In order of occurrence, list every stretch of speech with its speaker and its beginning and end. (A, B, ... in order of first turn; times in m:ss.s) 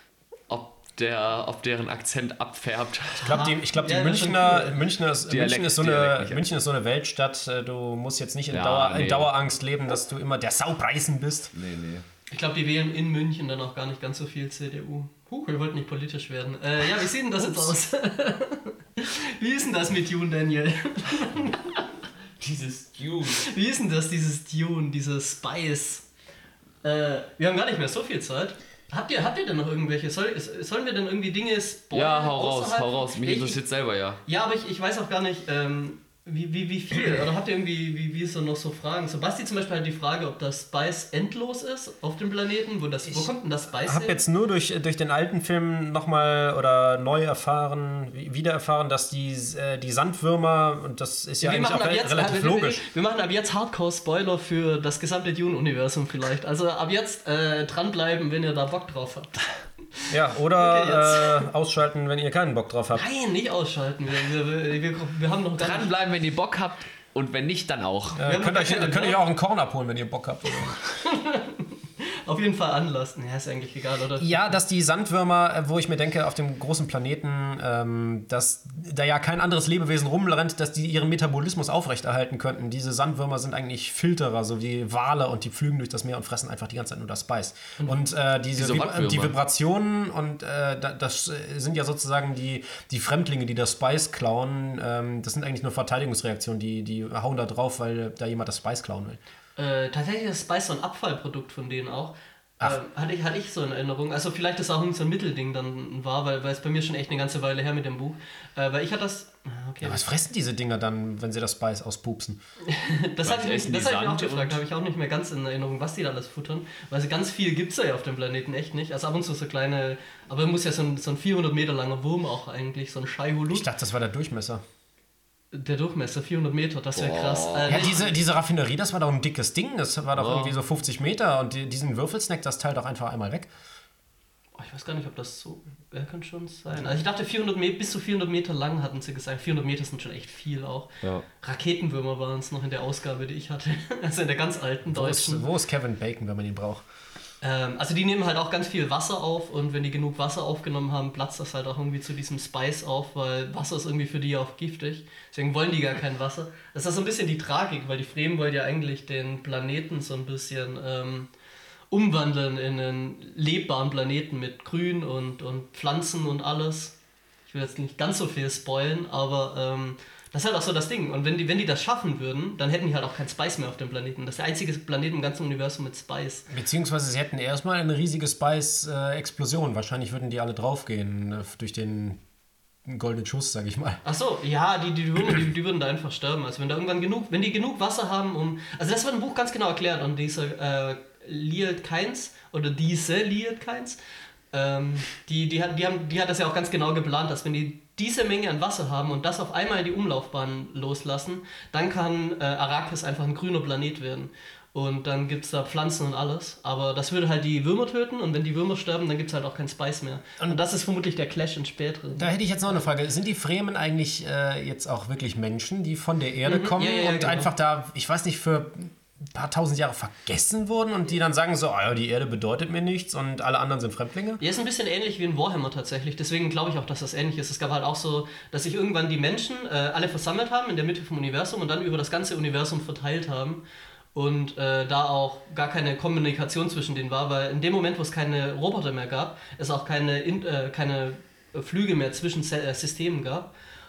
0:00.5-0:03.4 A
0:03.2-0:04.8 B
0:03.2-0:11.5 C
0:05.3-0:06.4 A
0:08.5-0:09.3 A
0:11.5-0:12.0 A
0:12.3-0:21.8 B
0:22.4-0:23.5 A
0:23.3-0:26.1 B
0:26.8-0:33.6 B
0:31.9-0:34.2 A
0:34.2-0:44.2 B
0:43.8-0:52.8 C
0:51.4-1:01.5 B
1:00.1-1:03.1 C
1:02.9-1:05.9 B
1:05.6-1:08.2 A
1:08.2-1:10.8 C
1:08.2-1:09.2 B
1:10.8-1:14.5 B
1:14.2-1:39.2 C
1:28.6-1:29.4 A
1:39.6-1:50.0 B
1:49.8-1:52.4 C
1:52.7-2:03.7 B
1:53.2-1:54.6 A
2:03.5-2:04.6 C
2:05.5-2:08.1 B
2:07.0-2:07.9 A
2:07.7-2:13.5 C
2:10.2-2:10.5 A
2:14.6-2:25.4 B
2:24.9-2:26.8 C
2:27.4-2:41.3 B
2:41.9-2:47.0 B
2:47.5-2:56.5 B
2:56.5-3:02.2 C
3:02.9-3:04.0 C
3:04.0-3:14.0 B
3:14.5-3:32.3 B
3:32.2-3:44.4 C
3:36.4-3:37.5 B
3:44.4-3:53.6 B
3:54.1-4:03.5 B